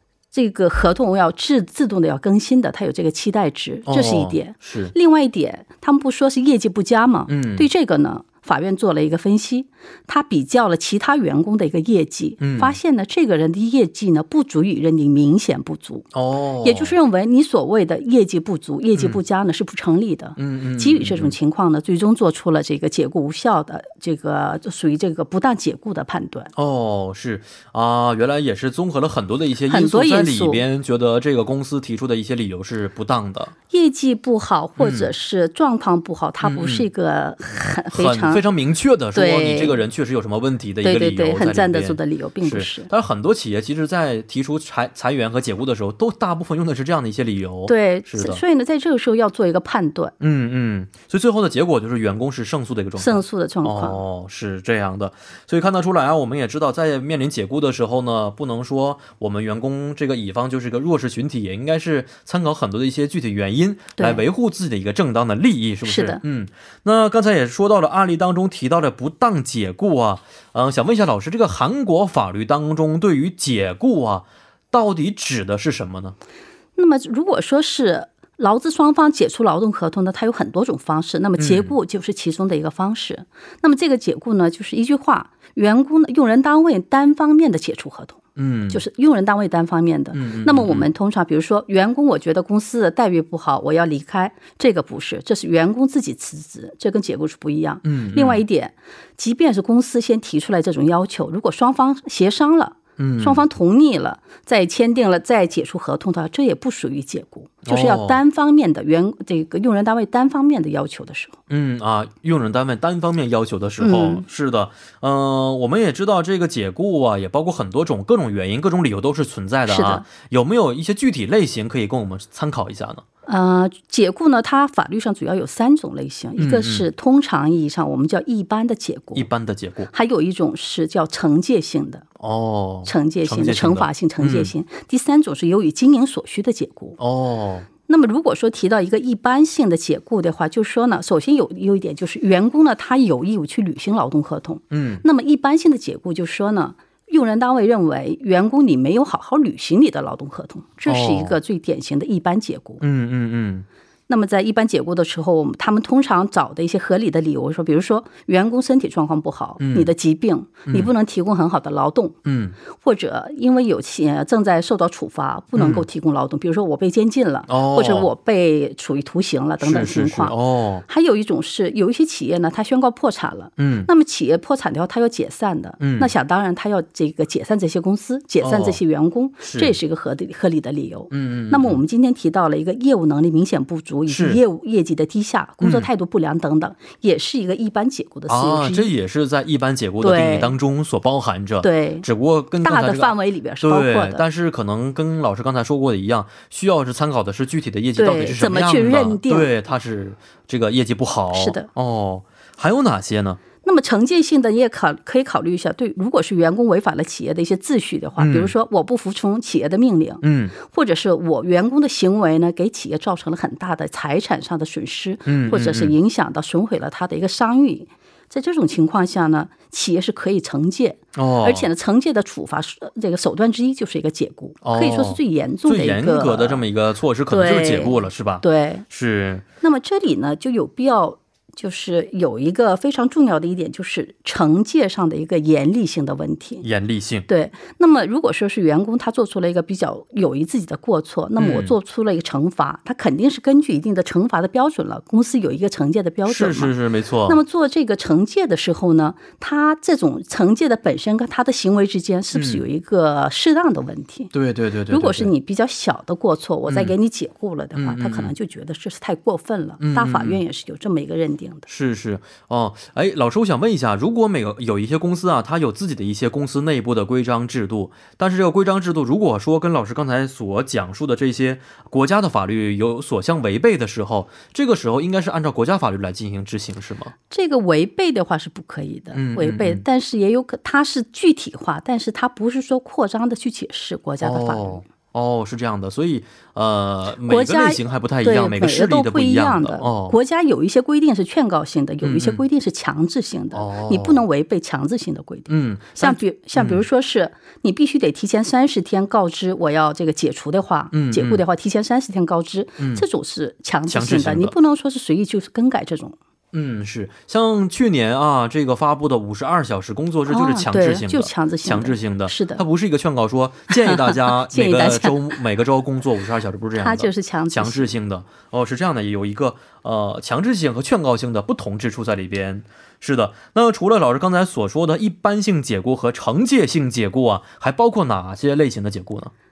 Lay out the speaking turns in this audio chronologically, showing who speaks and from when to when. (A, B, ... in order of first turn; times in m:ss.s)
0:00.3-0:16.1 A
0:03.9-0:04.9 B
0:07.3-0:07.7 B
0:12.4-0:12.8 B
0:16.1-0:17.0 B
0:16.6-0:26.5 A
0:20.4-0:21.3 B
0:26.6-0:33.5 B
0:29.7-0:30.6 A
0:33.7-0:38.4 A
0:34.8-0:35.1 B
0:36.4-0:36.9 B
0:37.9-0:48.4 B
0:39.1-0:39.8 A
0:40.8-0:42.9 A
0:47.7-0:50.1 A
0:50.2-1:16.2 B
0:53.0-0:54.0 A
1:04.0-1:04.2 A
1:05.8-1:06.2 A
1:16.8-1:51.4 A
1:21.4-1:21.8 B
1:28.4-1:28.8 B
1:30.1-1:30.9 B
1:37.8-1:38.4 B
1:43.0-1:43.4 B
1:47.6-1:48.2 B
1:51.5-2:03.0 B
1:53.8-1:54.2 A
1:59.7-2:00.0 A
2:03.3-2:09.3 A
2:06.4-2:06.9 B
2:09.1-2:09.9 B
2:09.9-2:12.1 A
2:12.2-2:14.5 B
2:12.8-2:17.0 A
2:17.0-2:17.7 B
2:17.9-2:32.8 A
2:24.7-2:25.0 B
2:30.9-2:31.4 B
2:32.8-2:33.7 B
2:34.1-2:42.2 A
2:39.6-2:39.9 B
2:42.2-2:42.6 B
2:42.7-3:08.9 A
2:45.6-2:45.9 B
2:47.5-2:48.1 B
2:49.6-2:50.8 B
2:53.6-2:53.9 B
2:55.8-2:56.1 B
2:58.4-2:58.8 B
2:59.4-2:59.8 B
3:01.1-3:01.8 B
3:04.1-3:04.4 B
3:05.6-3:05.9 B
3:08.3-3:23.4 B
3:10.0-3:10.5 A
3:11.6-3:12.1 A
3:12.6-3:14.2 A
3:18.0-3:19.5 A
3:21.3-3:21.7 A
3:23.6-3:46.6 A
3:28.2-3:28.5 B
3:30.2-3:30.5 B
3:35.3-3:35.9 B
3:41.2-3:41.7 B
3:44.6-3:49.4 B
3:47.3-3:48.8 A
3:49.6-3:56.6 A
3:56.6-3:57.3 B
3:57.3-4:06.8 A
4:01.4-4:01.7 B
4:06.3-4:07.4 B
4:07.3-4:14.3 A
4:12.3-4:12.6 B
4:14.3-4:15.3 B
4:14.9-4:21.7 A
4:16.7-4:17.0 B
4:17.8-4:18.3 B
4:19.8-4:20.4 B
4:21.7-4:37.1 B
4:37.3-4:44.8 A
4:39.1-4:39.8 B
4:44.2-4:50.2 B
4:47.2-5:06.2 A
4:52.0-4:52.4 B
4:53.5-4:54.2 B
4:55.5-4:56.8 B
5:00.9-5:01.4 B
5:02.8-5:03.0 B
5:03.9-5:04.5 B
5:06.5-5:29.3 B
5:10.3-5:12.6 A
5:13.7-5:15.2 A
5:16.8-5:17.9 A